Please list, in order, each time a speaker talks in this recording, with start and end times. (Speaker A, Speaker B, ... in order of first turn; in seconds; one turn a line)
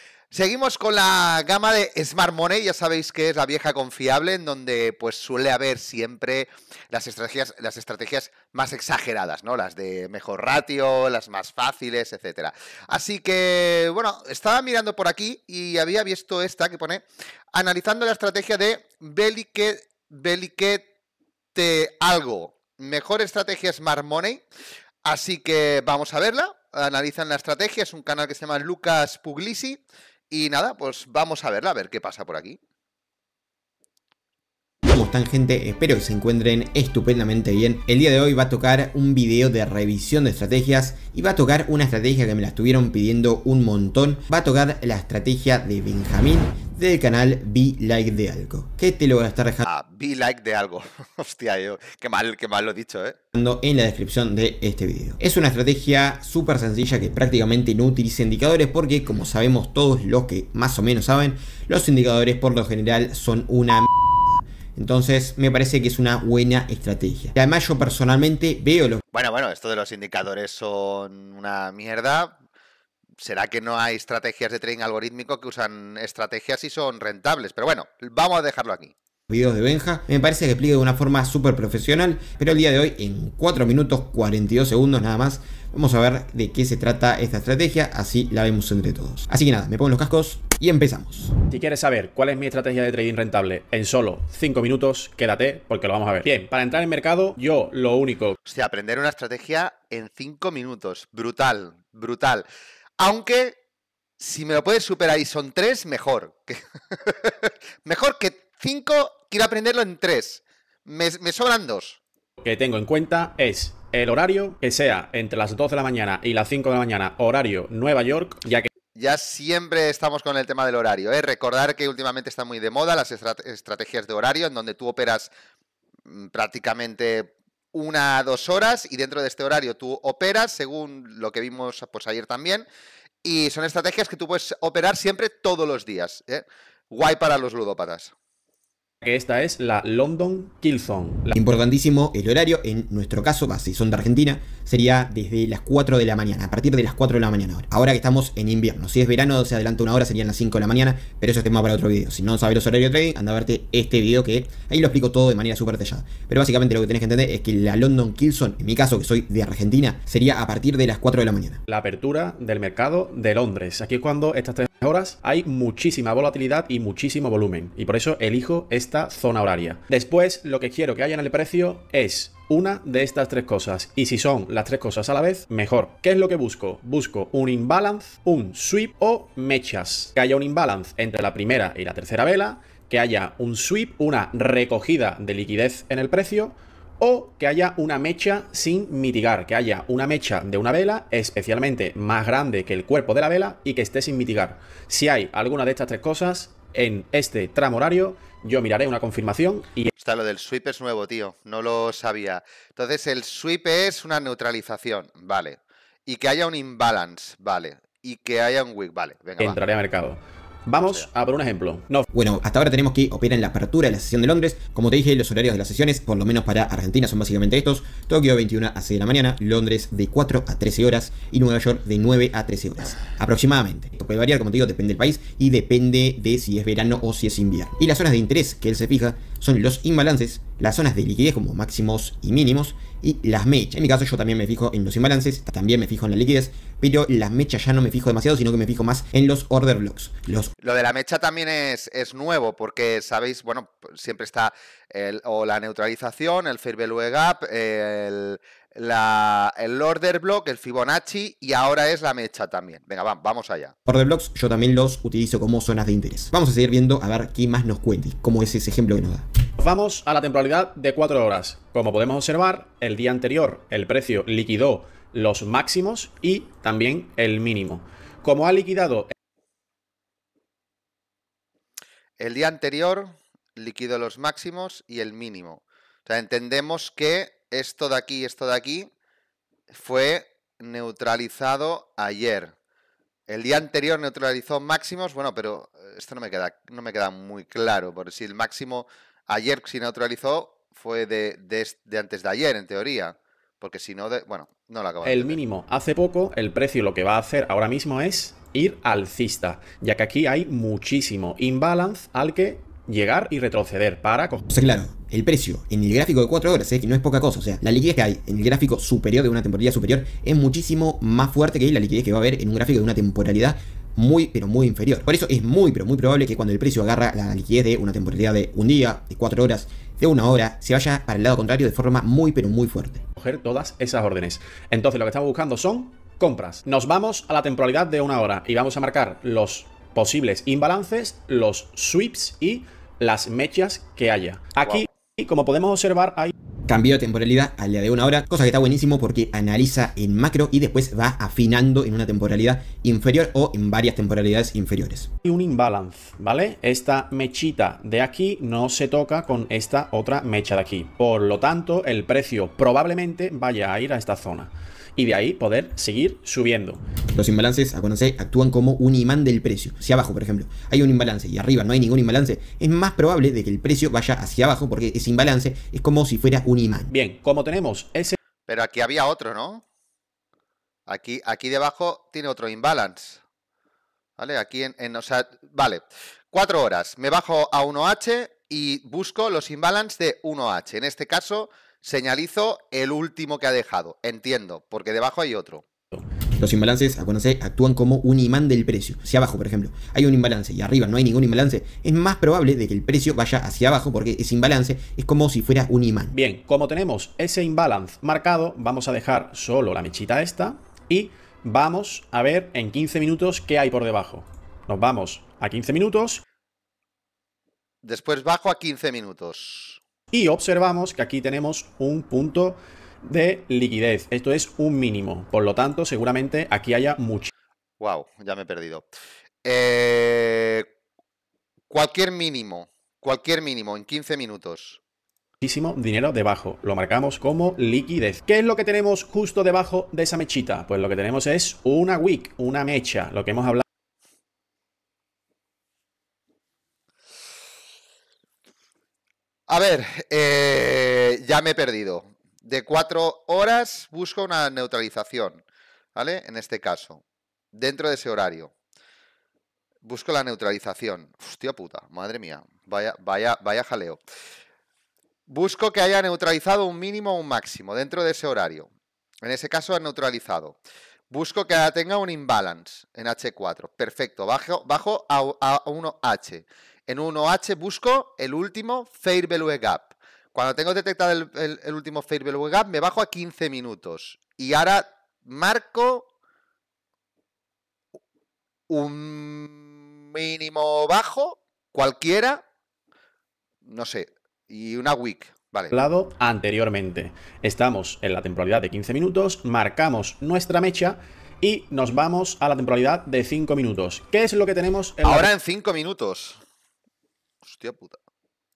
Speaker A: 0.3-20.9
Speaker A: 21.6-24.4
Speaker A: 25.1-32.6
Speaker B: 34.9-49.6
Speaker A: 49.6-53.2
Speaker B: 53.3-69.0
Speaker A: 69.1-72.4
Speaker A: 73.2-78.9
Speaker B: 79.3-91.3
Speaker C: 91.5-98.4
Speaker A: 98.5-102.5
Speaker A: 103.0-103.6
Speaker A: 104.2-112.0
Speaker C: 112.4-118.7
Speaker A: 119.0-125.3
Speaker A: 126.1-132.7
Speaker A: 133.2-138.1
Speaker C: 139.0-141.4
Speaker B: 141.3-161.6
Speaker C: 161.7-199.9
Speaker A: 200.0-209.6
Speaker C: 209.4-212.1
Speaker A: 210.8-211.1
Speaker B: 212.1-240.5
Speaker A: 240.6-253.7
Speaker B: 253.9-259.3
Speaker C: 259.6-269.1
Speaker A: 272.2-278.9
Speaker A: 279.7-282.5
Speaker A: 283.3-295.4
Speaker C: 295.0-304.4
Speaker B: 304.5-323.0
Speaker C: 323.2-336.3
Speaker B: 336.7-345.1
Speaker C: 345.2-356.8
Speaker B: 357.1-366.9
Speaker C: 366.9-368.2
Speaker A: 368.5-369.6
Speaker A: 370.9-373.2
Speaker A: 374.2-385.6
Speaker B: 386.3-396.1
Speaker C: 396.1-406.2
Speaker A: 407.8-409.8
Speaker C: 410.1-417.3
Speaker A: 417.8-418.9
Speaker A: 419.4-420.7
Speaker A: 421.7-424.8
Speaker C: 425.4-433.6
Speaker A: 439.5-445.4
Speaker A: 446.0-447.0
Speaker A: 447.5-448.5
Speaker A: 449.9-454.0
Speaker A: 455.3-458.7
Speaker A: 459.2-460.6
Speaker A: 461.1-476.1
Speaker A: 478.7-482.4
Speaker A: 483.6-485.7
Speaker C: 485.7-495.3
Speaker A: 495.0-496.4
Speaker A: 497.4-498.0